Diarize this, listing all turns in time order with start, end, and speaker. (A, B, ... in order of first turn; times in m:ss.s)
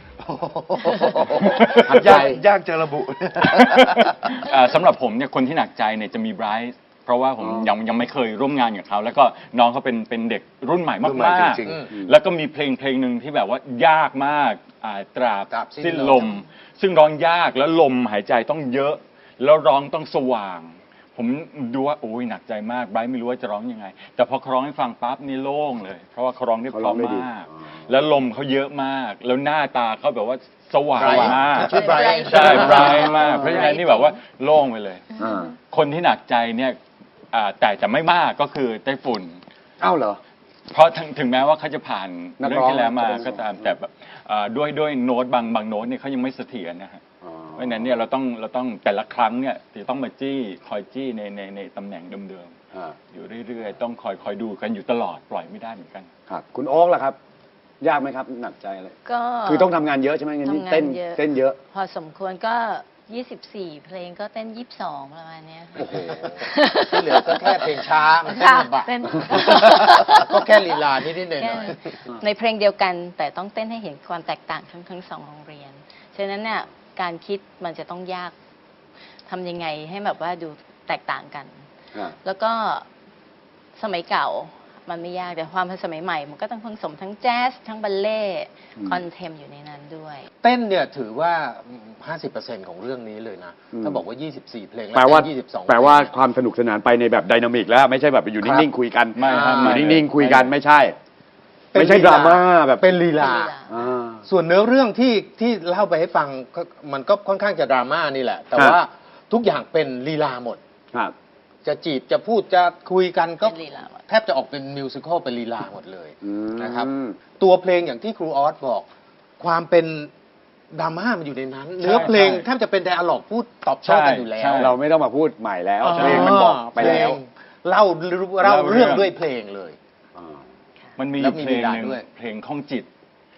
0:00.3-0:04.0 A
0:01.2-0:02.4 B
0:03.5-0:35.0 C
0:07.4-0:07.7 B
0:11.0-0:11.9 A
0:11.6-0:11.9 D
0:15.5-0:16.3 D
0:26.7-0:27.3 B
0:31.0-0:32.9 D
0:31.1-0:31.4 B
0:32.5-0:33.7 B
0:35.2-0:35.5 B
0:35.7-0:36.8 C
0:37.3-0:39.4 C
0:39.8-0:40.2 B
0:40.7-0:47.0 C
0:42.4-0:43.7 B
0:47.2-0:47.9 B
0:47.6-0:52.5 C
0:53.1-0:56.1 C
0:56.3-0:57.2 B
0:57.8-0:58.9 B
0:59.0-0:59.7 E
0:59.5-1:01.6 B
1:00.4-1:07.7 E
1:06.8-1:11.9 D
1:08.3-1:10.4 E
1:11.4-1:18.3 E
1:19.3-1:21.6 E
1:22.2-1:22.9 E
1:23.8-1:30.3 E
1:30.4-1:36.1 D
1:33.7-1:34.0 B
1:34.9-1:41.0 B
1:39.2-1:40.3 C
1:39.2-1:40.1 D
1:41.7-1:43.5 D
1:41.7-1:42.9 B
1:43.1-1:43.7 E
1:43.7-1:44.2 B
1:44.3-1:50.6 D
1:51.6-1:58.9 D
1:53.4-1:54.0 E
1:56.2-1:57.2 B
1:59.4-2:00.1 D
2:00.7-2:04.7 D
2:01.8-2:02.5 C
2:03.8-2:04.7 C
2:04.6-2:07.2 B
2:05.8-2:09.8 D
2:05.9-2:07.1 C
2:08.4-2:09.1 C
2:11.0-2:12.9 C
2:11.2-2:12.0 D